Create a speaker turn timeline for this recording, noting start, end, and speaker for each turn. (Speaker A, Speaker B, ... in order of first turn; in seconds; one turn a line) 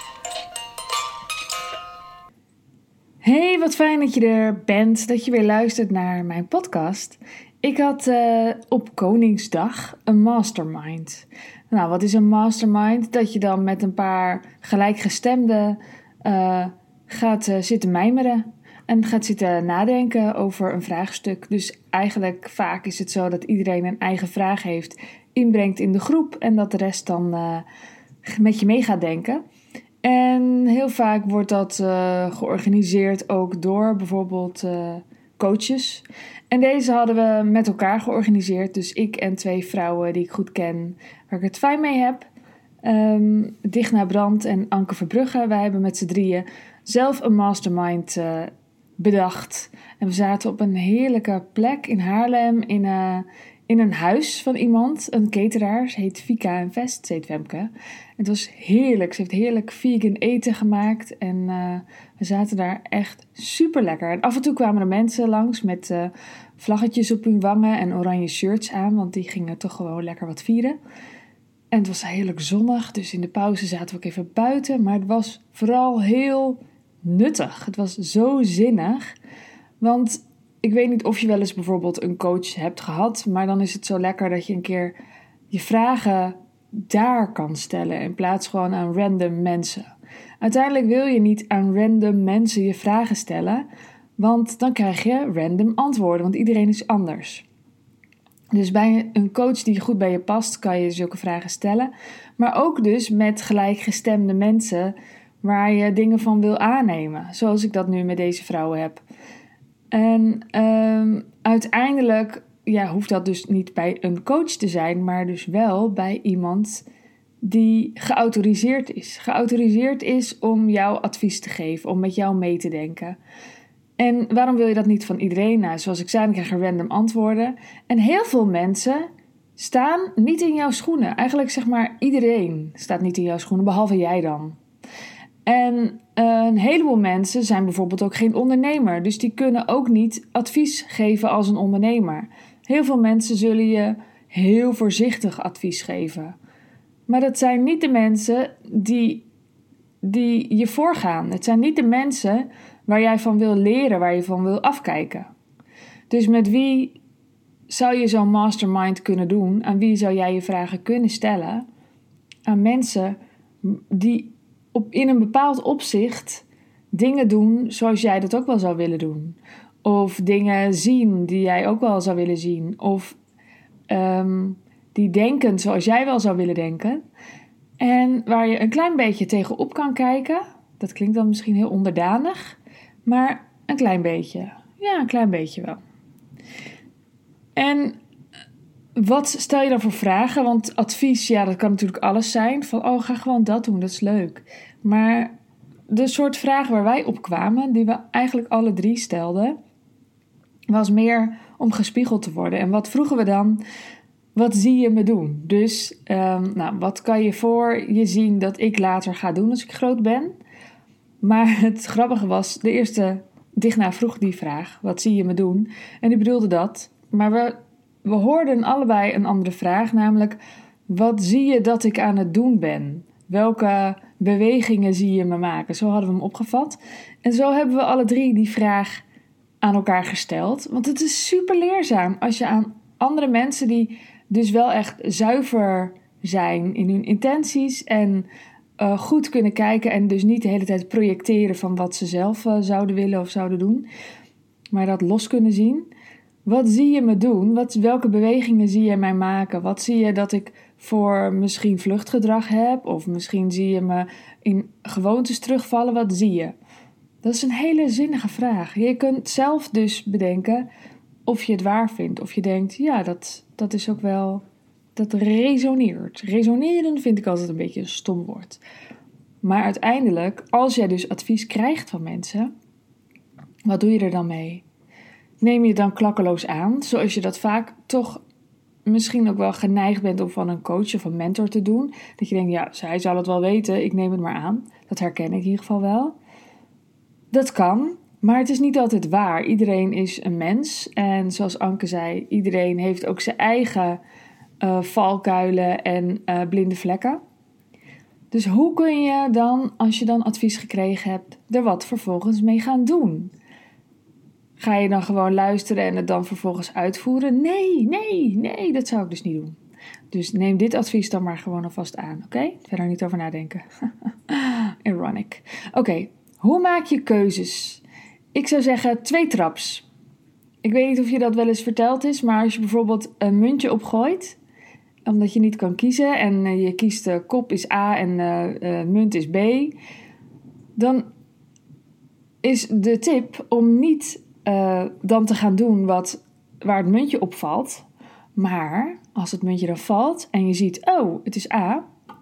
Speaker A: 3.2-27.6
Speaker A: 28.2-29.4
Speaker A: 30.0-42.3
Speaker A: 42.8-70.8
Speaker A: 71.7-79.1
Speaker A: 79.8-84.9
Speaker A: 85.5-93.7
Speaker A: 94.2-97.4
Speaker A: 98.5-109.0
Speaker A: 109.9-116.8
Speaker A: 117.4-123.2
Speaker A: 124.0-134.6
Speaker A: 135.4-146.3
Speaker A: 147.1-149.2
Speaker A: 150.0-155.3
Speaker A: 156.1-157.0
Speaker A: 157.7-161.6
Speaker A: 162.4-173.2
Speaker A: 173.9-177.0
Speaker A: 177.8-185.8
Speaker A: 187.6-188.0
Speaker A: 188.9-195.3
Speaker A: 195.9-199.6
Speaker A: 200.7-203.6
Speaker A: 204.3-210.3
Speaker A: 211.2-229.0
Speaker A: 229.6-238.3
Speaker A: 238.8-243.9
Speaker A: 244.7-245.9
Speaker A: 246.4-256.6
Speaker A: 257.2-260.7
Speaker A: 261.2-264.4
Speaker A: 264.9-268.6
Speaker A: 269.4-272.5
Speaker A: 273.6-274.6
Speaker A: 275.4-278.2
Speaker A: 278.9-286.1
Speaker A: 287.3-294.0
Speaker A: 294.6-297.2
Speaker A: 298.3-303.3
Speaker A: 304.6-309.6
Speaker A: 310.1-313.6
Speaker A: 314.3-317.8
Speaker A: 318.3-319.8
Speaker A: 320.6-324.4
Speaker A: 325.1-329.8
Speaker A: 330.8-331.1
Speaker A: 332.4-341.8